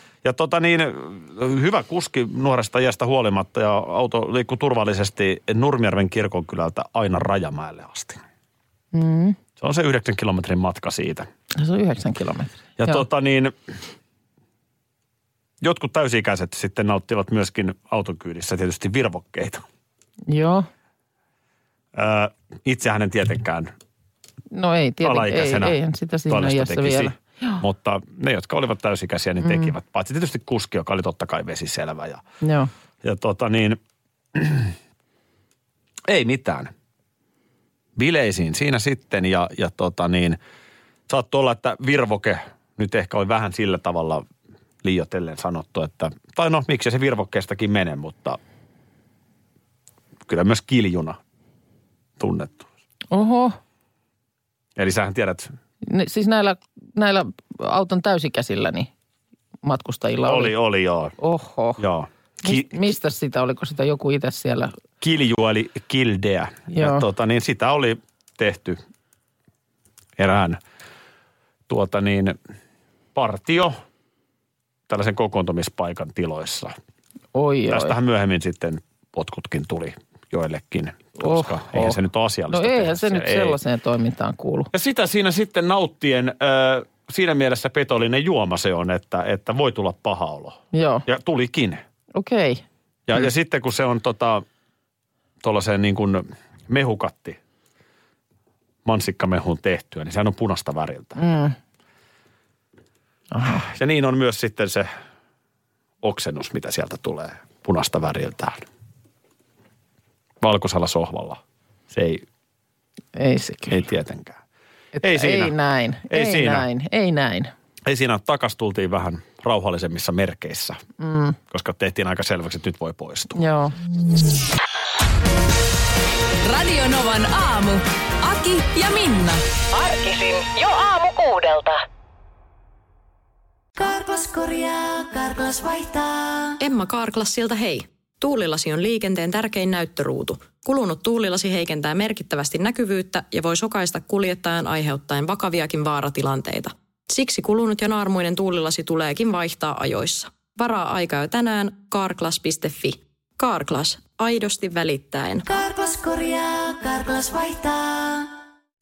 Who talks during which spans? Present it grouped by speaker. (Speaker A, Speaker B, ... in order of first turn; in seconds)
Speaker A: 0.2-8.2, 9.6-11.3, 12.8-13.5, 15.6-19.6, 21.9-23.7, 25.0-32.2, 33.0-33.8, 34.3-34.7, 36.0-36.7, 38.0-40.4, 41.1-44.2, 44.8-48.4, 50.3-51.2, 52.2-52.7, 54.8-55.5, 60.2-61.1, 61.8-62.9, 65.0-68.8, 70.2-70.6, 71.7-72.4, 73.1-73.8, 74.9-76.8, 77.7-83.6, 84.7-91.8, 93.1-94.4, 95.4-97.4, 98.8-101.2, 103.5-104.9, 106.0-108.6, 110.4-112.2, 113.7-114.4, 115.0-115.5, 116.1-116.7, 117.8-120.8, 121.5-123.4
Speaker B: 8.9-9.4, 11.5-13.0, 20.3-20.7, 24.5-27.6, 29.4-29.7, 32.4-32.7, 53.1-53.6, 55.9-58.9, 59.6-60.5, 61.2-61.8, 62.4-64.7, 66.7-67.0, 77.3-78.0, 81.2-82.0, 82.5-84.7, 90.7-91.0, 92.1-92.6, 101.2-101.5, 103.3-103.7, 113.2-113.8, 114.9-117.5, 121.0-121.4, 123.4-123.8
Speaker C: 126.4-129.4
Speaker D: 129.7-131.8
Speaker E: 133.8-136.6, 155.4-158.3
Speaker F: 136.6-155.5